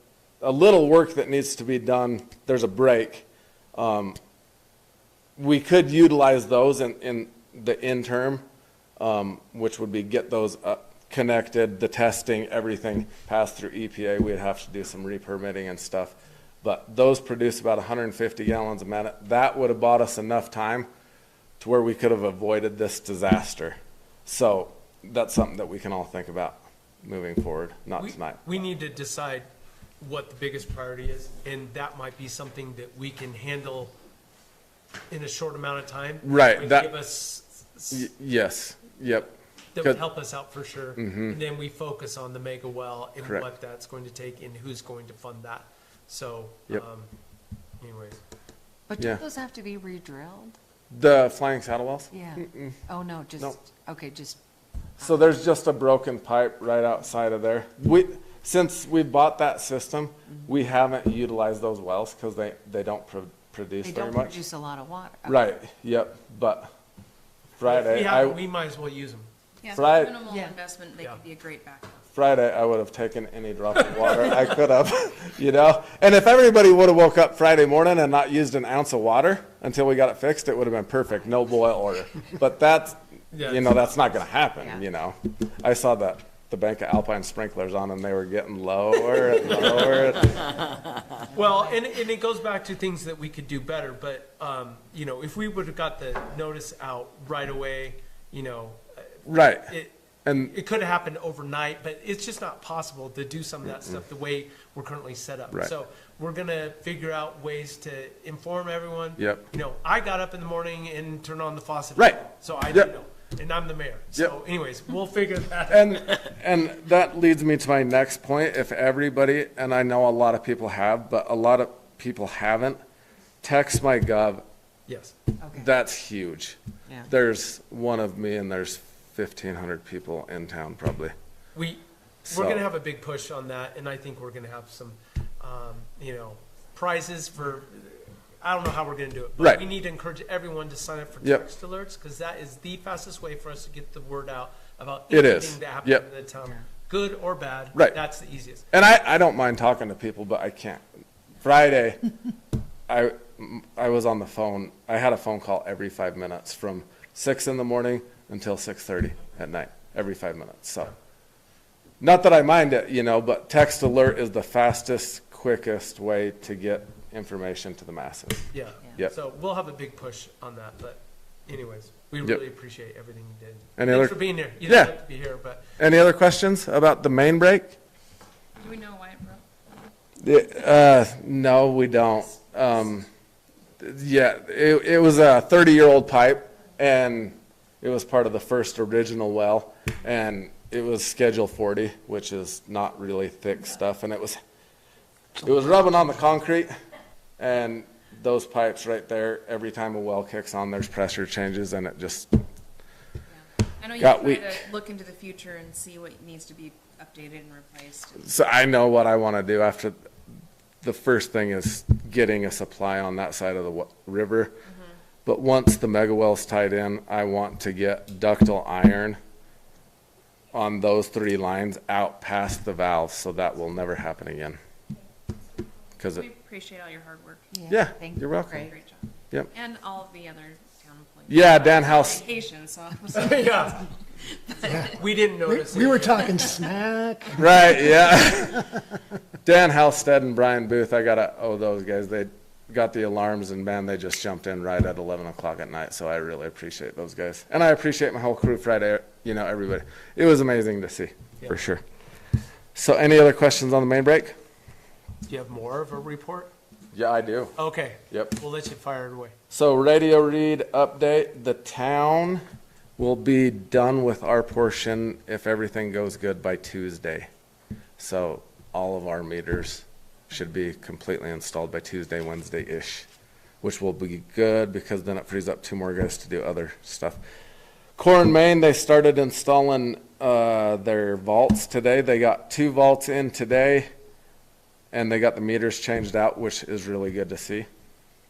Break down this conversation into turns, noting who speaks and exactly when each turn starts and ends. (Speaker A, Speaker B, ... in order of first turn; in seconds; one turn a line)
Speaker A: 0.4-4.2
Speaker A: 5.4-8.4
Speaker A: 9.0-20.9
Speaker A: 21.6-28.6
Speaker B: 28.0-29.5
Speaker B: 30.0-33.9
Speaker B: 35.1-38.1
Speaker A: 36.2-36.9
Speaker A: 37.9-40.0
Speaker B: 39.7-47.1
Speaker A: 41.0-41.4
Speaker B: 47.8-48.2
Speaker C: 48.9-50.5
Speaker A: 50.9-52.8
Speaker C: 52.1-54.4
Speaker A: 55.0-64.4
Speaker C: 63.8-65.4
Speaker A: 65.2-66.7
Speaker A: 67.6-68.4
Speaker B: 67.6-69.3
Speaker D: 69.6-72.0
Speaker A: 69.7-70.2
Speaker C: 70.3-70.5
Speaker A: 72.1-90.6
Speaker B: 74.0-74.3
Speaker B: 83.3-83.8
Speaker B: 89.5-90.5
Speaker B: 91.2-116.3
Speaker A: 99.2-99.7
Speaker A: 100.2-100.5
Speaker A: 109.2-109.5
Speaker A: 112.0-112.9
Speaker A: 115.7-122.8
Speaker A: 123.4-124.4
Speaker B: 124.9-125.1
Speaker C: 125.4-125.7
Speaker A: 125.5-131.1
Speaker B: 131.5-148.7
Speaker A: 132.3-132.6
Speaker A: 145.1-146.0
Speaker A: 148.7-150.8
Speaker A: 151.4-152.0
Speaker A: 152.9-160.9
Speaker A: 162.0-169.1
Speaker B: 168.5-175.7
Speaker A: 173.8-174.9
Speaker A: 175.8-177.8
Speaker D: 178.6-179.4
Speaker A: 180.2-183.1
Speaker A: 183.8-194.4
Speaker A: 195.4-196.7
Speaker A: 197.4-202.4
Speaker D: 203.4-208.2
Speaker A: 204.0-204.6
Speaker A: 208.2-209.9
Speaker A: 210.8-214.5
Speaker A: 215.2-219.2
Speaker A: 220.5-224.6
Speaker A: 226.0-226.3
Speaker D: 226.1-227.5
Speaker C: 227.5-228.7
Speaker A: 227.7-228.7
Speaker D: 228.5-234.9
Speaker A: 231.3-232.2
Speaker B: 233.1-233.9
Speaker B: 234.9-236.7
Speaker E: 235.4-238.6
Speaker A: 237.3-238.7
Speaker A: 239.4-251.8
Speaker A: 252.7-254.3
Speaker B: 255.3-256.5
Speaker A: 256.9-257.6
Speaker B: 257.6-259.3
Speaker A: 258.1-258.4
Speaker A: 259.5-262.4
Speaker A: 263.0-267.3
Speaker A: 268.0-273.1
Speaker A: 273.6-277.2
Speaker A: 278.0-283.9
Speaker A: 284.9-287.7